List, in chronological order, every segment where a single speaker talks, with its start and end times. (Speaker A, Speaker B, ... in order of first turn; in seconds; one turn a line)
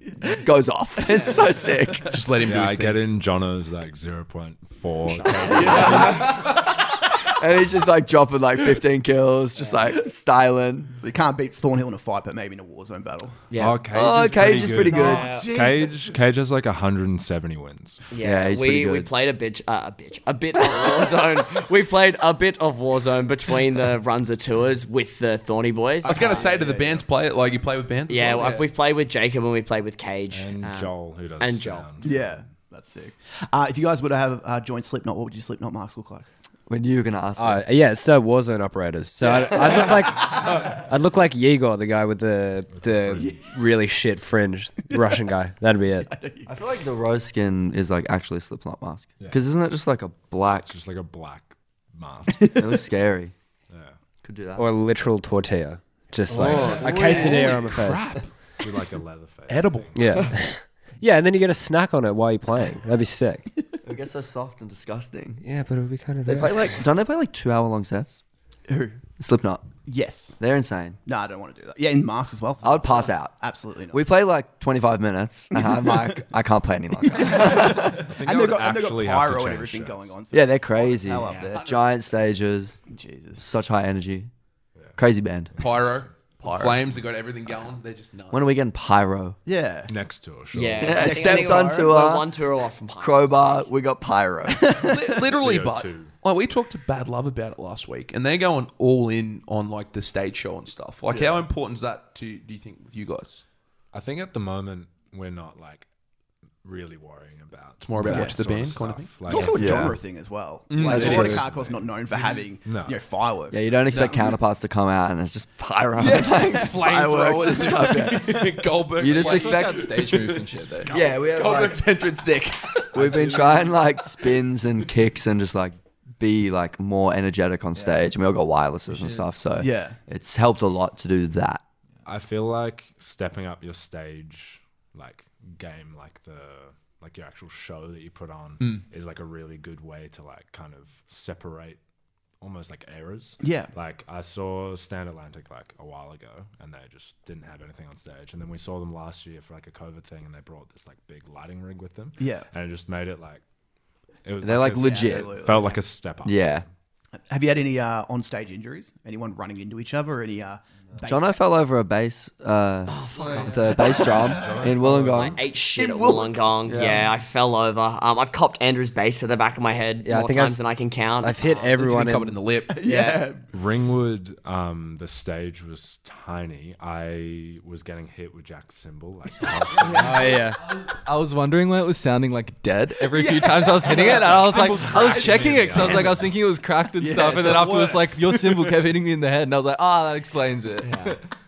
Speaker A: 0.2-2.2
Speaker B: 1.1-1.4
Speaker C: 2.0-3.0
Speaker D: 2.4-6.3
Speaker B: 5.0-6.3
Speaker E: 5.5-6.4
Speaker A: 5.5-10.9
Speaker C: 5.6-6.1
Speaker E: 11.0-13.4
Speaker B: 13.5-13.8
Speaker D: 13.6-18.0
Speaker A: 13.9-15.3
Speaker E: 14.4-16.2
Speaker B: 14.9-15.5
Speaker B: 18.1-26.5
Speaker A: 18.2-19.1
Speaker E: 26.0-27.1
Speaker C: 26.1-28.6
Speaker B: 28.1-31.9
Speaker D: 30.3-32.4
Speaker E: 32.0-36.2
Speaker A: 36.7-37.7
Speaker F: 37.4-46.1
Speaker E: 39.4-40.0
Speaker A: 39.5-39.9
Speaker D: 42.7-43.3
Speaker E: 43.2-43.6
Speaker E: 44.9-45.3
Speaker E: 46.0-46.5
Speaker A: 46.5-50.7
Speaker D: 50.5-52.6
Speaker E: 52.4-52.8
Speaker A: 52.5-53.3
Speaker D: 53.7-54.0
Speaker A: 54.2-54.7
Speaker F: 54.5-58.2
Speaker C: 56.3-58.3
Speaker D: 56.3-56.9
Speaker A: 56.4-57.4
Speaker E: 56.8-57.5
Speaker D: 58.6-60.4
Speaker C: 59.5-59.9
Speaker F: 59.9-63.4
Speaker A: 63.8-65.4
Speaker F: 65.4-66.8
Speaker A: 66.2-68.2
Speaker E: 68.7-69.0
Speaker A: 69.2-69.7
Speaker E: 69.8-70.4
Speaker A: 70.4-71.0
Speaker E: 71.0-74.0
Speaker A: 72.6-73.3
Speaker A: 73.9-78.1
Speaker E: 75.5-76.2
Speaker E: 77.1-81.6
Speaker D: 78.0-80.1
Speaker A: 80.3-82.8
Speaker C: 80.8-82.0
Speaker B: 81.2-81.5
Speaker E: 82.9-83.4
Speaker A: 83.4-84.3
Speaker A: 85.0-85.5
Speaker C: 85.6-88.5
Speaker E: 86.4-86.8
Speaker A: 88.3-89.4
Speaker E: 89.4-89.9
Speaker D: 89.9-91.1
Speaker B: 90.5-93.7
Speaker A: 90.8-92.3
Speaker E: 90.8-91.9
Speaker A: 93.0-94.9
Speaker E: 94.5-95.0
Speaker C: 94.8-103.4
Speaker D: 95.2-96.1
Speaker E: 101.1-101.4
Speaker D: 103.9-105.8
Speaker D: 106.6-109.9
Speaker C: 107.8-109.5
Speaker E: 108.1-108.4
Speaker E: 109.2-114.3
Speaker A: 109.3-109.9
Speaker C: 110.7-111.4
Speaker A: 110.8-111.4
Speaker D: 110.9-111.8
Speaker D: 112.6-113.0
Speaker A: 113.5-119.9
Speaker E: 116.0-116.8
Speaker C: 116.3-122.9
Speaker G: 119.0-121.0
Speaker A: 120.9-122.0
Speaker A: 122.9-131.6
Speaker G: 123.0-123.7
Speaker G: 128.9-129.2
Speaker E: 129.6-130.0
Speaker D: 132.0-141.8
Speaker D: 142.4-153.4
Speaker E: 143.4-143.7
Speaker E: 152.2-152.5
Speaker D: 154.2-156.7
Speaker A: 154.4-155.4
Speaker E: 154.8-155.8
Speaker A: 156.2-156.6
Speaker E: 157.1-161.4
Speaker A: 161.0-165.4
Speaker B: 162.9-164.2
Speaker D: 163.9-165.4
Speaker B: 164.8-171.8
Speaker E: 165.8-166.4
Speaker A: 166.7-167.1
Speaker F: 170.0-170.6
Speaker F: 171.2-172.4
Speaker C: 171.7-172.7
Speaker E: 172.7-173.5
Speaker B: 172.8-173.3
Speaker D: 173.5-180.3
Speaker G: 179.9-191.2
Speaker F: 180.0-180.6
Speaker E: 183.1-184.1
Speaker C: 184.1-186.2
Speaker D: 184.1-186.3
Speaker E: 187.0-188.2
Speaker C: 187.2-188.1
Speaker B: 190.8-191.2